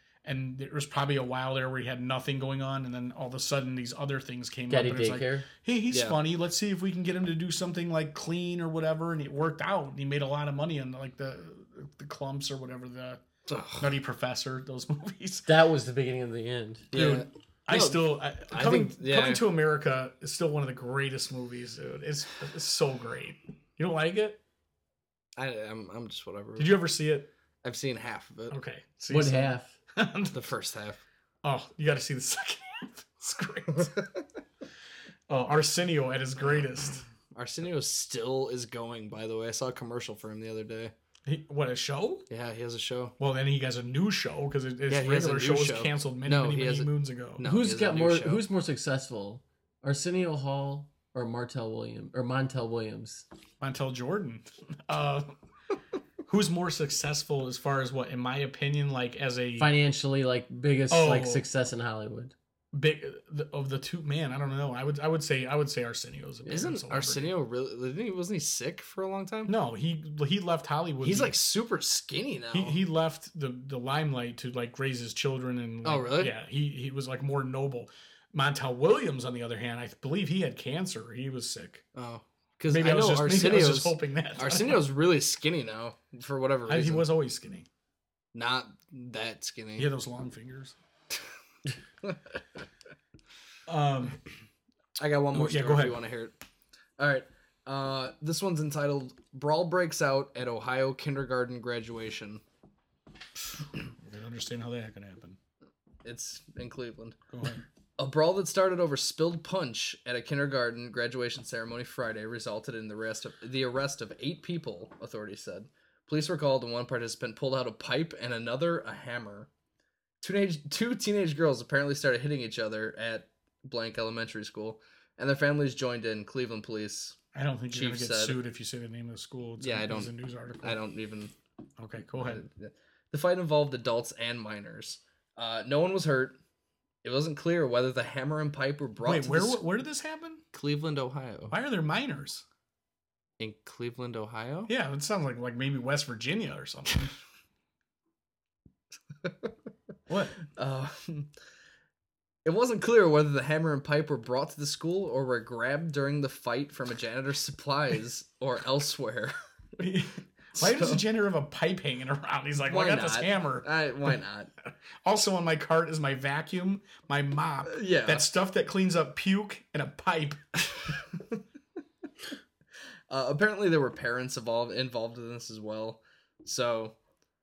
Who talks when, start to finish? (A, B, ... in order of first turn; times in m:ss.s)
0:00.2-0:13.2 A
0:04.7-0:05.4 B
0:05.9-0:06.2 C
0:13.5-0:13.9 C
0:13.8-0:15.5 A
0:15.5-0:16.9 B
0:16.9-0:19.4 C
0:16.9-0:24.4 A
0:25.4-0:26.8 C
0:26.6-0:27.3 A
0:27.6-0:28.6 C
0:28.5-0:30.4 A
0:29.1-0:29.7 B
0:30.3-0:31.0 C
0:31.4-0:34.0 A
0:35.3-0:37.0 A
0:37.3-0:40.9 C
0:41.2-0:42.2 A
0:42.3-0:43.1 C
0:43.2-0:47.4 A
0:44.9-0:48.4 C
0:47.4-0:53.2 B
0:53.6-0:55.3 A
0:56.3-0:59.7 A
0:59.6-1:02.3 B
1:00.9-1:01.4 A
1:02.7-1:07.3 A
1:06.4-1:09.5 C
1:09.5-1:11.3 A
1:11.0-1:12.8 C
1:12.5-1:21.8 A
1:15.8-1:16.3 C
1:21.9-1:27.0 C
1:22.7-1:24.8 A
1:26.7-1:27.7 A
1:28.3-1:29.9 C
1:29.8-1:30.7 A
1:33.7-1:34.2 A
1:35.0-1:36.3 C
1:35.3-1:36.0 A
1:37.0-1:42.4 C
1:44.0-1:45.4 A
1:46.0-1:47.2 C
1:47.3-1:47.6 A
1:48.0-1:59.5 C
2:00.2-2:07.2 C
2:07.3-2:10.8 A
2:07.7-2:08.4 C
2:09.6-2:10.1 C
2:10.6-2:11.3 C
2:11.8-2:12.4 A
2:12.1-2:16.4 C
2:17.0-2:19.6 C
2:19.0-2:20.4 A
2:20.5-2:21.5 C
2:21.5-2:22.4 A
2:23.4-2:24.7 C
2:24.7-2:27.1 A
2:29.2-2:29.5 C
2:30.1-2:30.4 A
2:30.5-2:31.3 C
2:32.4-2:39.8 C
2:39.8-2:43.7 A
2:40.6-2:41.0 C
2:42.6-2:44.5 C
2:45.0-2:50.4 A
2:47.6-2:48.3 C
2:50.9-2:51.4 C
2:53.1-2:57.0 C